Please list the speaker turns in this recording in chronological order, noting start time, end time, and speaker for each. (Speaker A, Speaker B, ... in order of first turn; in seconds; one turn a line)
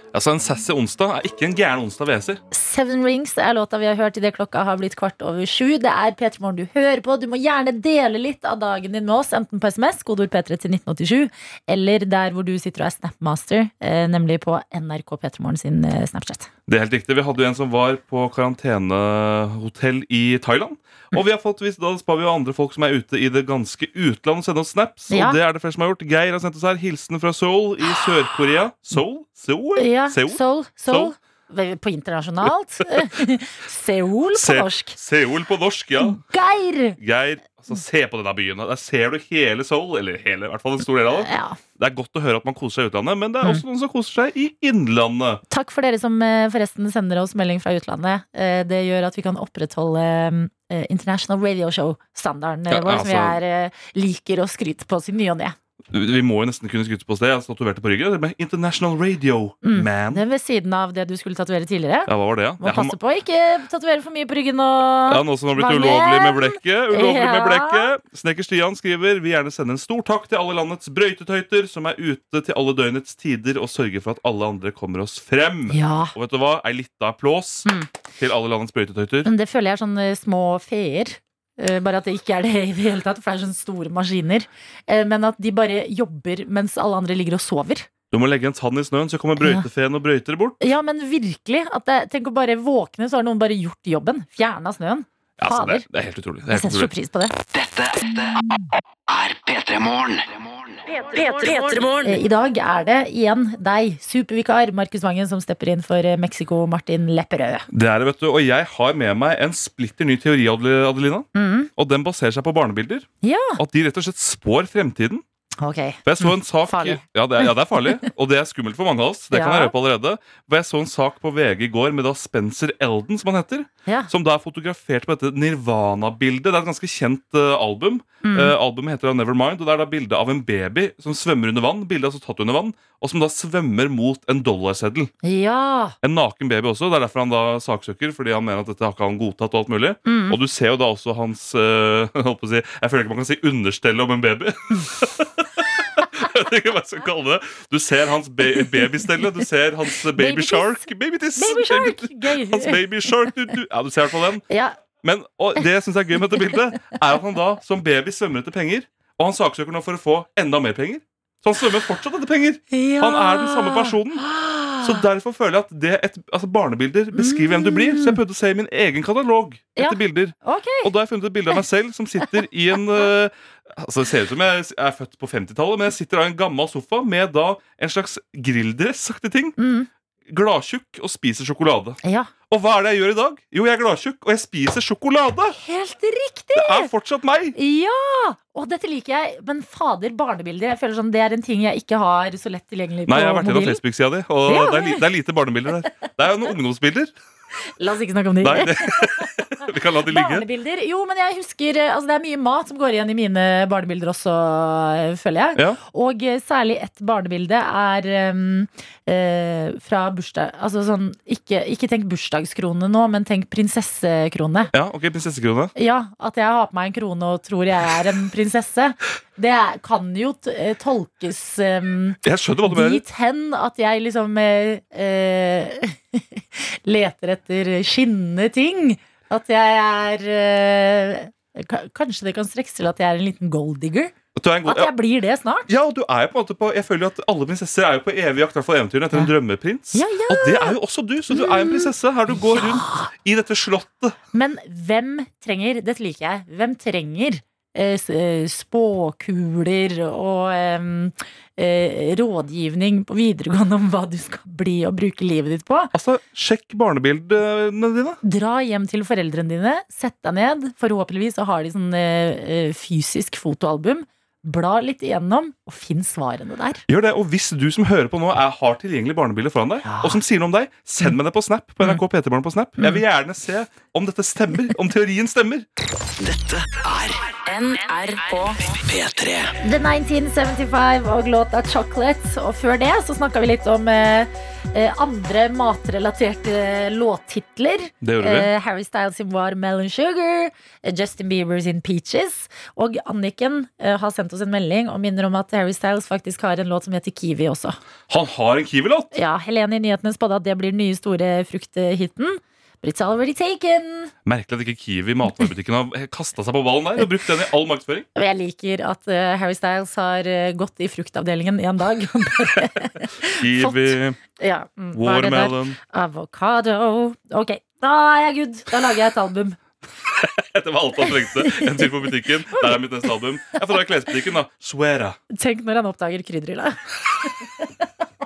Speaker A: 0.1-2.4
Speaker B: 2.5-16.5
Speaker A: 16.7-31.1
Speaker B: 25.1-25.4
Speaker B: 29.8-35.0
Speaker A: 32.5-33.1
Speaker A: 34.3-36.2
Speaker B: 36.0-37.0
Speaker A: 37.0-45.4
Speaker B: 41.1-41.6
Speaker B: 45.5-55.5
Speaker A: 52.7-53.4
Speaker A: 55.9-60.2
Speaker B: 59.6-67.9
Speaker A: 62.1-63.0
Speaker A: 65.1-79.3
Speaker B: 75.7-76.1
Speaker B: 77.6-77.9
Speaker B: 79.2-87.9
Speaker A: 88.1-90.6
Speaker B: 89.4-89.7
Speaker B: 90.6-95.8
Speaker A: 95.4-96.9
Speaker B: 96.5-97.3
Speaker C: 97.5-98.4
Speaker C: 99.1-100.8
Speaker D: 101.1-102.2
Speaker B: 102.0-107.7
Speaker A: 107.7-115.2
Speaker B: 111.3-111.7
Speaker B: 113.2-113.6
Speaker B: 115.6-118.1
Speaker A: 116.0-135.1
Speaker B: 119.3-119.7
Speaker B: 128.2-128.5
Speaker B: 135.2-135.9
Speaker A: 136.0-154.4
Speaker B: 140.1-140.4
Speaker B: 150.1-153.3
Speaker B: 154.5-154.8
Speaker A: 155.0-164.2
Speaker B: 162.7-165.0
Speaker A: 164.8-179.6
Speaker B: 167.1-168.2
Speaker B: 169.8-170.9
Speaker B: 179.6-179.9
Speaker A: 180.3-182.0
Speaker B: 182.0-182.3
Speaker A: 182.5-185.6
Speaker B: 185.5-186.9
Speaker A: 186.5-187.6
Speaker B: 187.5-193.8
Speaker A: 193.1-197.2
Speaker B: 194.4-195.0
Speaker B: 197.8-214.7
Speaker A: 198.4-200.4
Speaker A: 214.7-215.7
Speaker B: 215.8-234.1
Speaker A: 222.2-223.0
Speaker A: 234.3-234.9
Speaker B: 234.6-235.7
Speaker A: 235.7-244.2
Speaker B: 239.9-240.8
Speaker B: 241.3-243.1
Speaker B: 244.3-255.9
Speaker A: 255.9-258.2
Speaker B: 258.2-266.8
Speaker A: 266.9-275.6
Speaker B: 269.8-270.2
Speaker C: 276.2-277.3
Speaker D: 277.5-278.6
Speaker C: 278.7-279.5
Speaker B: 279.6-297.8
Speaker A: 288.0-288.5
Speaker A: 298.1-299.1
Speaker B: 299.1-304.1
Speaker A: 304.2-308.1
Speaker B: 308.1-319.6
Speaker A: 313.3-314.2
Speaker A: 314.9-315.8
Speaker A: 320.1-325.2
Speaker B: 321.1-321.9
Speaker B: 322.5-322.8
Speaker B: 325.3-327.3